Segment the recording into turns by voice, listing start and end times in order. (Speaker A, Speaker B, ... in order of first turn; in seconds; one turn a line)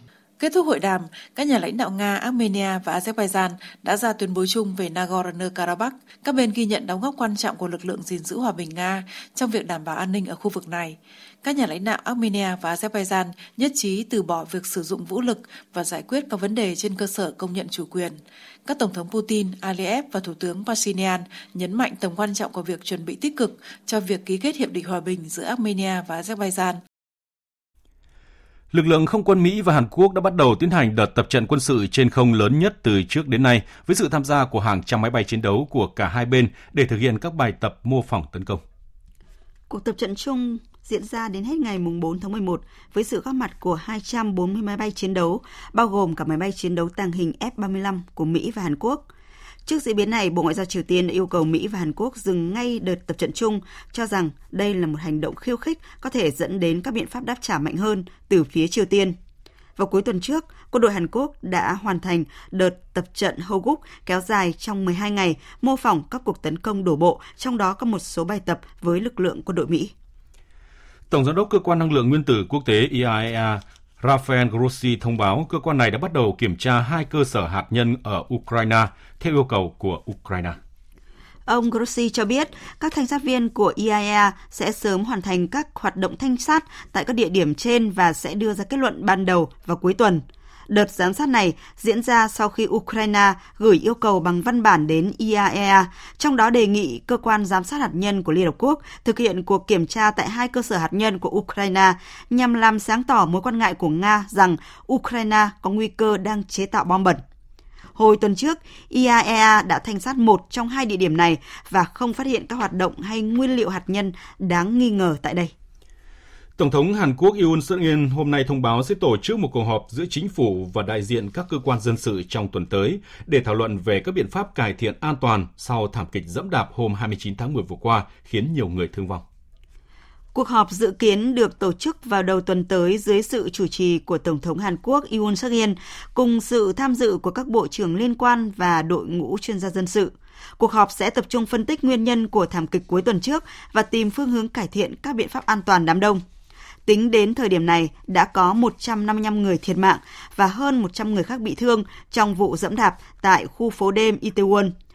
Speaker A: 0.4-26.8
Speaker B: 28.7-38.6
Speaker C: 39.7-49.0
Speaker C: 49.7-59.2
Speaker C: 59.8-69.9
Speaker B: 71.1-80.6
Speaker C: 81.5-107.2
Speaker C: 108.0-115.5
Speaker B: 116.6-129.2
Speaker C: 130.3-146.2
Speaker C: 146.9-154.7